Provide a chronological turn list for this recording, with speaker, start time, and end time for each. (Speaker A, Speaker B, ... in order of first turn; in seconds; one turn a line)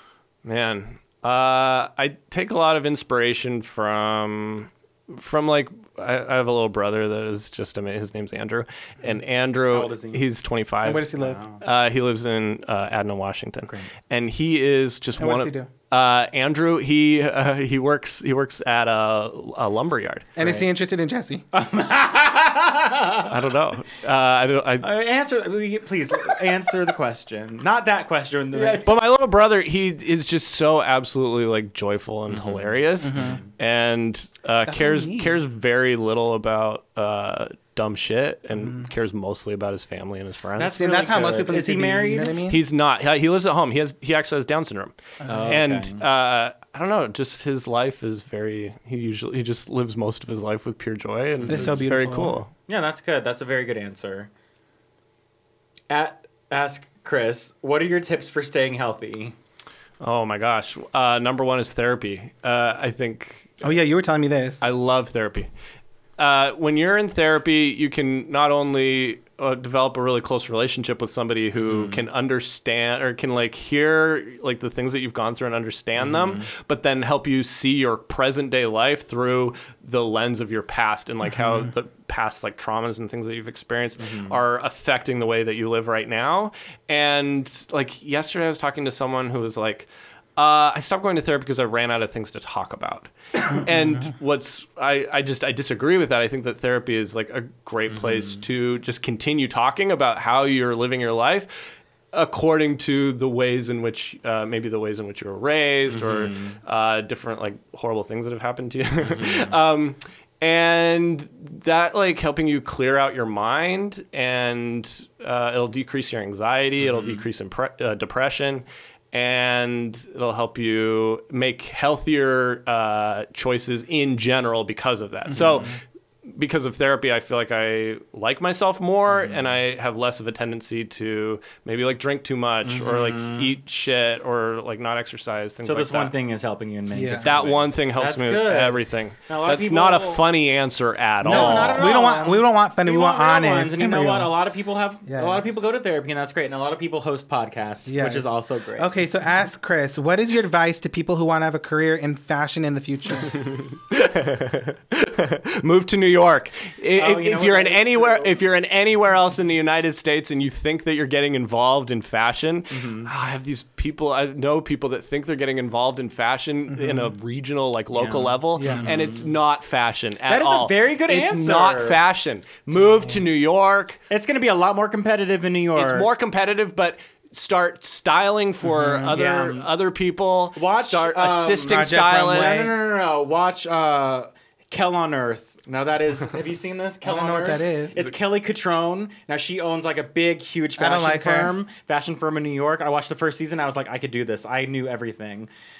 Speaker A: 0.5-20.3
Speaker B: 9.7-10.2
Speaker C: 10.8-11.4
Speaker B: 11.2-11.6
Speaker C: 15.2-15.7
Speaker C: 20.4-21.4
Speaker B: 21.5-23.3
Speaker A: 23.3-24.9
Speaker B: 24.8-28.9
Speaker A: 28.6-40.7
Speaker B: 32.3-33.5
Speaker C: 33.0-33.4
Speaker C: 34.7-35.4
Speaker B: 40.6-42.4
Speaker C: 40.6-42.6
Speaker A: 42.5-52.5
Speaker C: 45.2-45.6
Speaker B: 45.2-46.0
Speaker B: 51.4-51.8
Speaker C: 51.5-52.4
Speaker B: 52.7-54.3
Speaker B: 55.9-59.4
Speaker A: 60.0-63.6
Speaker C: 63.6-64.6
Speaker A: 64.6-65.5
Speaker A: 66.2-136.1
Speaker B: 71.7-72.0
Speaker B: 76.0-76.5
Speaker B: 84.0-84.4
Speaker B: 98.0-98.4
Speaker B: 105.9-106.6
Speaker B: 109.0-109.5
Speaker B: 116.8-117.2
Speaker B: 125.3-125.7
Speaker B: 132.7-133.5
Speaker B: 135.6-140.3
Speaker C: 136.9-137.2
Speaker A: 137.2-141.9
Speaker B: 141.2-148.9
Speaker C: 141.3-144.4
Speaker C: 145.1-145.5
Speaker C: 147.9-153.4
Speaker A: 153.2-174.0
Speaker B: 156.9-158.4
Speaker B: 162.7-163.1
Speaker B: 168.0-169.3
Speaker C: 168.6-168.9
Speaker B: 170.3-172.0
Speaker B: 174.1-176.1
Speaker A: 175.8-182.7
Speaker C: 178.8-179.2
Speaker B: 179.1-179.7
Speaker B: 180.6-195.5
Speaker C: 181.7-182.7
Speaker C: 187.0-188.0
Speaker C: 190.8-191.5